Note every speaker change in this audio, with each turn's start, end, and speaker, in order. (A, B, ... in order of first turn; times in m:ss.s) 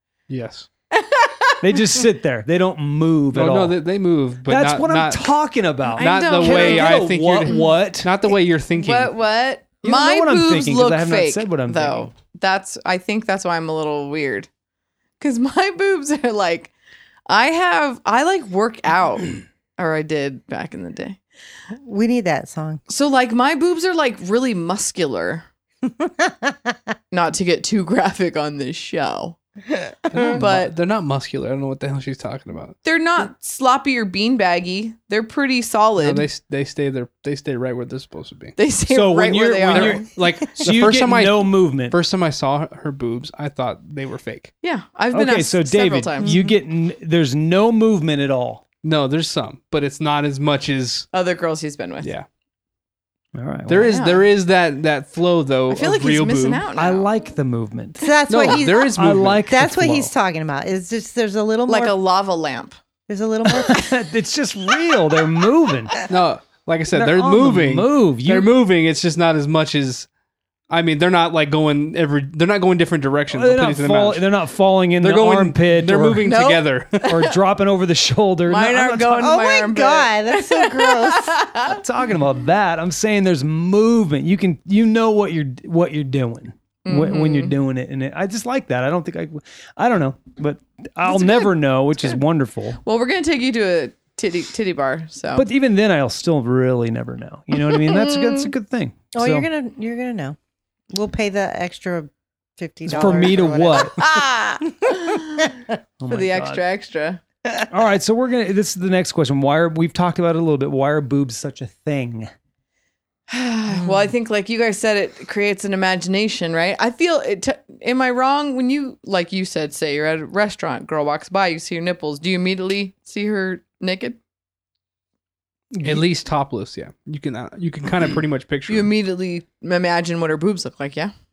0:00.3-0:00.7 A
0:00.9-0:01.6 B
0:01.6-0:03.8 C
0:03.3-0:05.3 A
0:04.5-0:08.1 C
0:06.0-0:07.7 B
0:06.0-0:09.1 A
0:08.8-0:14.5 B
0:09.8-0:12.1 C
0:15.2-0:16.7 B
0:17.3-0:21.2 B
0:21.8-0:22.8 D
0:22.9-0:25.5 B
0:26.0-0:26.5 D
0:27.1-0:29.4 B
0:30.1-0:32.8 A
0:30.3-0:30.7 B
0:32.8-0:36.3 B
0:36.0-0:38.6 A
0:38.6-0:40.1 B
0:38.9-0:42.0 C
0:39.7-0:44.5 A
0:44.6-0:46.4 B
0:45.1-0:48.6 C
0:48.8-0:51.1 A
0:51.1-0:52.1 B
0:53.4-0:53.9 C
0:53.7-0:56.7 A
0:53.8-0:54.3 B
0:55.7-0:57.1 B
0:56.8-1:00.1 C
0:58.0-0:59.0 D
0:58.3-0:59.4 A
0:59.5-1:02.0 D
1:01.7-1:02.8 B
1:03.1-1:04.0 D
1:03.6-1:06.0 C
1:06.1-1:10.1 A
1:06.9-1:08.5 C
1:10.7-1:14.3 A
1:13.3-1:16.3 C
1:15.0-1:17.1 A
1:16.2-1:17.4 B
1:17.1-1:19.3 C
1:18.5-1:21.8 B
1:19.2-1:21.4 D
1:21.7-1:32.8 C
1:26.8-1:27.6 B
1:31.1-1:31.5 B
1:32.8-1:35.5 B
1:35.4-1:39.5 C
1:37.6-1:38.5 B
1:39.1-1:40.4 D
1:40.9-1:44.1 D
1:42.9-1:44.0 C
1:43.7-1:45.6 B
1:46.0-1:46.6 C
1:46.1-1:47.2 B
1:47.7-1:52.3 C
1:53.3-2:04.2 B
2:05.7-2:06.0 C
2:05.8-2:08.9 A
2:08.7-2:11.1 B